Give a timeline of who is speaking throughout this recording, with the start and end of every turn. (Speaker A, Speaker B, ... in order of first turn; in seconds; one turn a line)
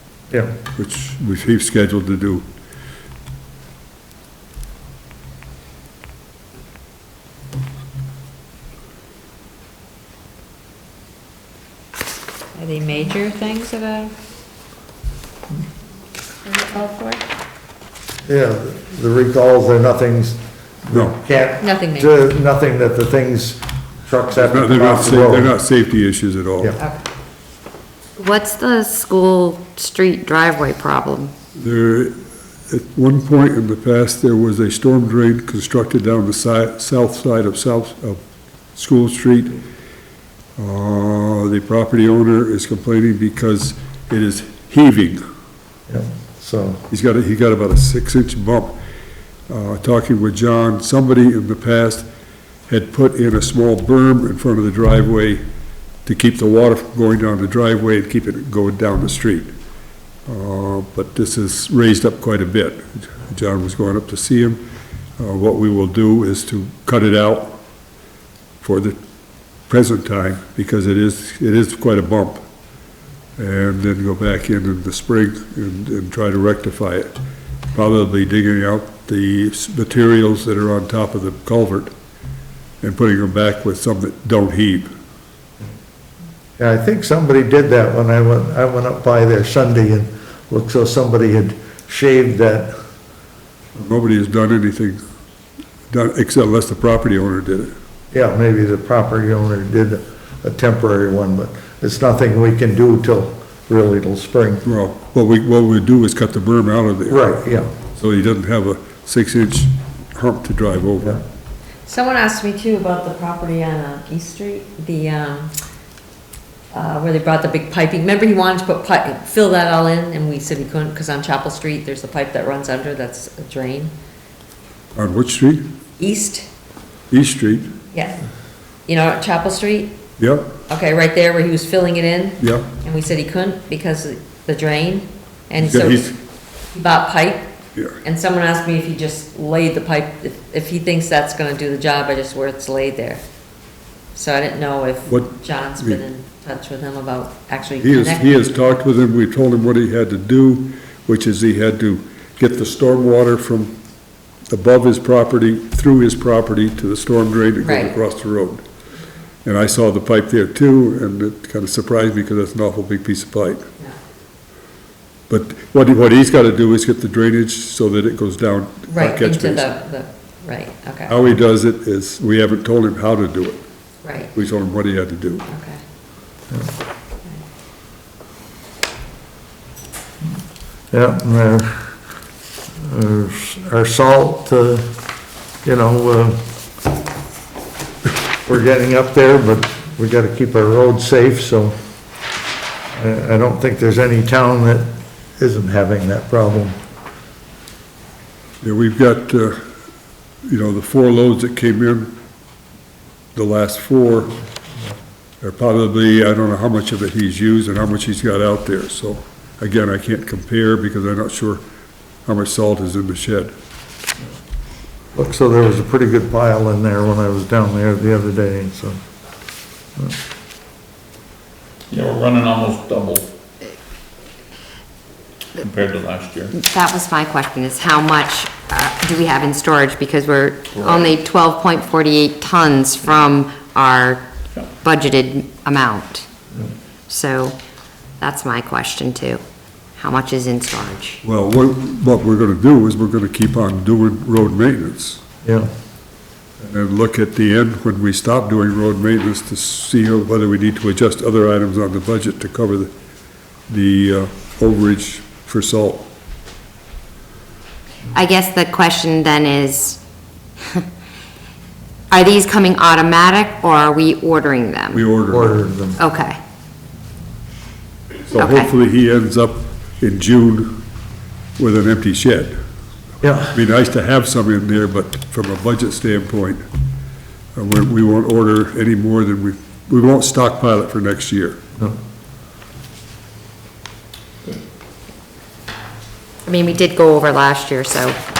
Speaker A: 0.7-2.5
Speaker B: 12.5-14.2
Speaker B: 16.4-17.2
Speaker C: 18.2-25.5
Speaker A: 20.9-21.2
Speaker B: 21.6-22.1
Speaker A: 24.3-26.7
Speaker D: 28.2-31.3
Speaker A: 31.6-38.2
Speaker A: 38.7-39.6
Speaker A: 40.6-45.2
Speaker C: 45.9-46.8
Speaker A: 46.9-48.8
Speaker A: 49.5-52.0
Speaker A: 52.7-55.4
Speaker A: 56.0-59.5
Speaker A: 60.2-64.6
Speaker A: 65.2-67.6
Speaker A: 68.6-69.0
Speaker A: 69.7-72.4
Speaker A: 73.4-77.1
Speaker A: 77.7-81.9
Speaker A: 82.8-84.9
Speaker C: 86.6-92.7
Speaker A: 93.8-95.0
Speaker A: 95.9-97.7
Speaker C: 98.1-104.6
Speaker A: 104.6-107.3
Speaker C: 107.1-107.7
Speaker A: 108.0-111.2
Speaker B: 111.8-115.5
Speaker B: 116.7-123.9
Speaker A: 125.0-125.7
Speaker B: 126.0-126.5
Speaker A: 127.1-127.7
Speaker B: 127.9-128.2
Speaker B: 128.9-129.9
Speaker A: 130.2-130.5
Speaker B: 130.7-136.2
Speaker A: 132.4-132.7
Speaker A: 135.6-136.1
Speaker B: 136.7-137.4
Speaker B: 138.0-143.2
Speaker B: 144.1-148.5
Speaker A: 145.1-146.0
Speaker A: 147.8-153.8
Speaker A: 154.5-158.6
Speaker B: 157.6-157.9
Speaker A: 159.4-163.7
Speaker A: 165.3-169.7
Speaker B: 168.9-171.2
Speaker A: 171.1-173.6
Speaker B: 174.0-174.3
Speaker A: 174.3-175.4
Speaker B: 175.5-175.8
Speaker C: 180.9-181.9
Speaker C: 182.8-184.9
Speaker C: 185.6-186.4
Speaker C: 188.4-191.8
Speaker C: 192.9-196.8
Speaker A: 198.6-199.6
Speaker A: 200.5-202.1
Speaker A: 203.3-204.4
Speaker A: 205.4-211.6
Speaker A: 212.2-213.5
Speaker C: 215.1-219.0
Speaker E: 221.9-223.3
Speaker E: 225.6-226.6
Speaker D: 226.6-234.3
Speaker E: 230.8-231.1
Speaker D: 234.8-236.3
Speaker D: 237.1-237.6
Speaker D: 238.2-239.4
Speaker D: 240.0-241.2
Speaker A: 241.2-245.2
Speaker A: 246.6-252.9
Speaker A: 253.7-256.1
Speaker D: 258.1-260.0
Speaker D: 260.6-260.9
Speaker D: 262.1-265.0
Speaker A: 264.9-265.6
Speaker C: 265.3-266.0
Speaker D: 266.0-266.4
Speaker A: 268.3-270.8
Speaker D: 268.4-268.7
Speaker A: 271.6-272.6
Speaker C: 273.2-273.6
Speaker A: 273.5-276.6
Speaker A: 277.5-281.6
Speaker D: 286.4-288.2